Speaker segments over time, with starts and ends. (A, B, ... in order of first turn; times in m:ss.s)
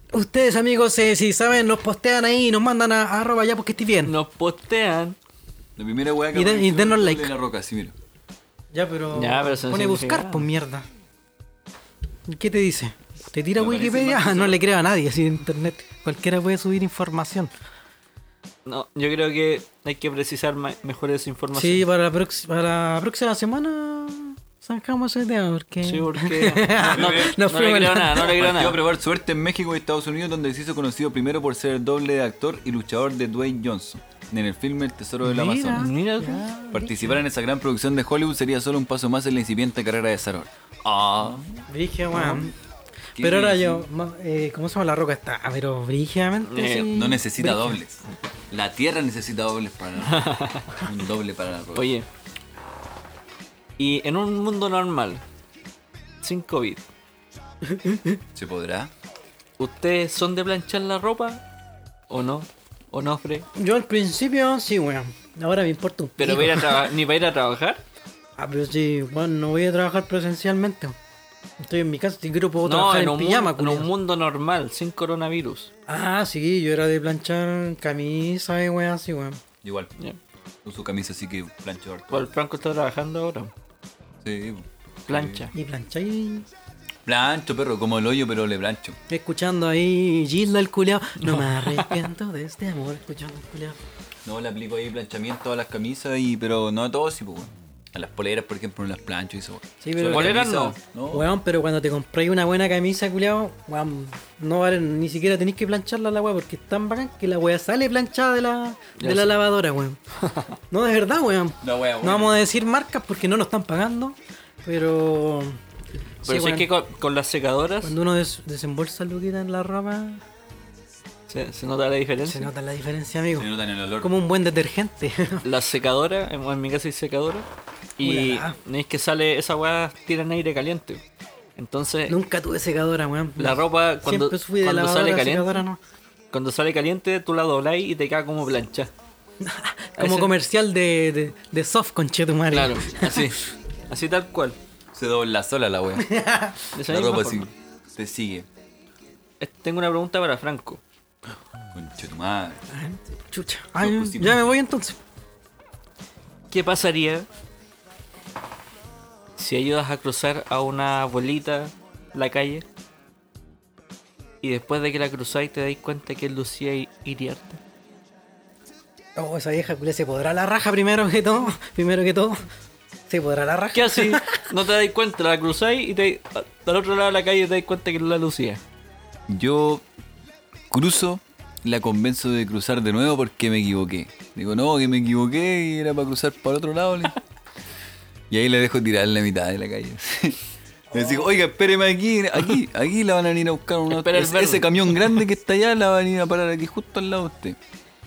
0:00.1-0:04.1 A
0:04.0-0:05.2 B
0:05.8-0:08.0 C
0:06.3-0:07.3 A
0:08.7-0:10.9 A
0:09.1-0:10.5 B
0:12.3-0:17.5 A
0:13.6-0:14.6 C
0:18.7-0:21.8 B
0:21.6-0:28.4 A
0:25.8-0:28.8 B
0:26.9-0:27.4 C
0:28.4-0:35.9 C
0:35.2-0:37.2 A
0:35.7-0:36.5 B
0:36.7-0:41.4 C
0:41.7-0:42.5 A
0:42.2-0:42.5 B
0:43.2-0:43.9 C
0:43.2-0:47.8 A
0:46.4-0:46.9 B
0:46.9-0:51.9 C
0:50.0-0:50.8 B
0:51.8-0:52.1 B
0:53.8-0:55.2 B
0:56.2-0:56.9 B
0:57.7-0:58.2 A
0:58.4-0:58.9 C
0:59.6-1:01.4 B
1:02.1-1:03.5 B
1:03.6-1:06.9 A
1:06.2-1:07.8 B
1:08.4-1:11.0 A
1:11.6-1:13.9 A
1:12.6-1:15.7 B
1:15.9-1:19.4 A
1:19.6-1:19.9 C
1:20.6-1:22.3 C
1:22.1-1:23.5 B
1:24.2-1:25.5 C
1:25.1-1:25.5 B
1:25.5-1:26.5 A
1:27.1-1:29.0 C
1:29.1-1:33.8 A
1:31.2-1:32.0 B
1:34.2-1:41.3 C
1:39.8-1:40.5 A
1:40.0-1:40.8 B
1:41.1-1:50.0 A
1:49.0-1:49.4 B
1:50.7-1:55.6 A
1:51.6-1:52.4 C
1:56.2-1:56.7 A
1:56.2-1:58.0 B
1:57.8-2:00.2 A
2:01.3-2:02.5 B
2:02.2-2:03.5 A
2:03.4-2:04.1 C
2:04.0-2:05.4 A
2:05.4-2:07.5 B
2:08.0-2:11.0 B
2:08.0-2:08.6 A
2:11.6-2:12.2 B
2:12.1-2:15.8 A
2:13.4-2:15.6 B
2:16.3-2:18.9 B
2:19.4-2:23.3 A
2:20.0-2:20.3 B
2:22.5-2:24.6 B
2:24.9-2:26.1 C
2:26.0-2:26.6 A
2:26.7-2:27.5 B
2:26.8-2:28.5 C
2:29.4-2:30.8 B
2:31.7-2:32.6 C
2:32.7-2:35.0 A
2:33.8-2:34.5 C
2:36.5-2:37.3 B
2:39.4-2:42.6 B
2:44.4-2:47.6 B
2:49.2-2:52.4 A
2:53.1-2:54.4 A
2:53.7-2:58.6 B
2:59.3-2:59.8 C
3:00.7-3:07.2 C
3:08.3-3:17.6 C
3:10.9-3:11.2 A
3:13.9-3:15.2 B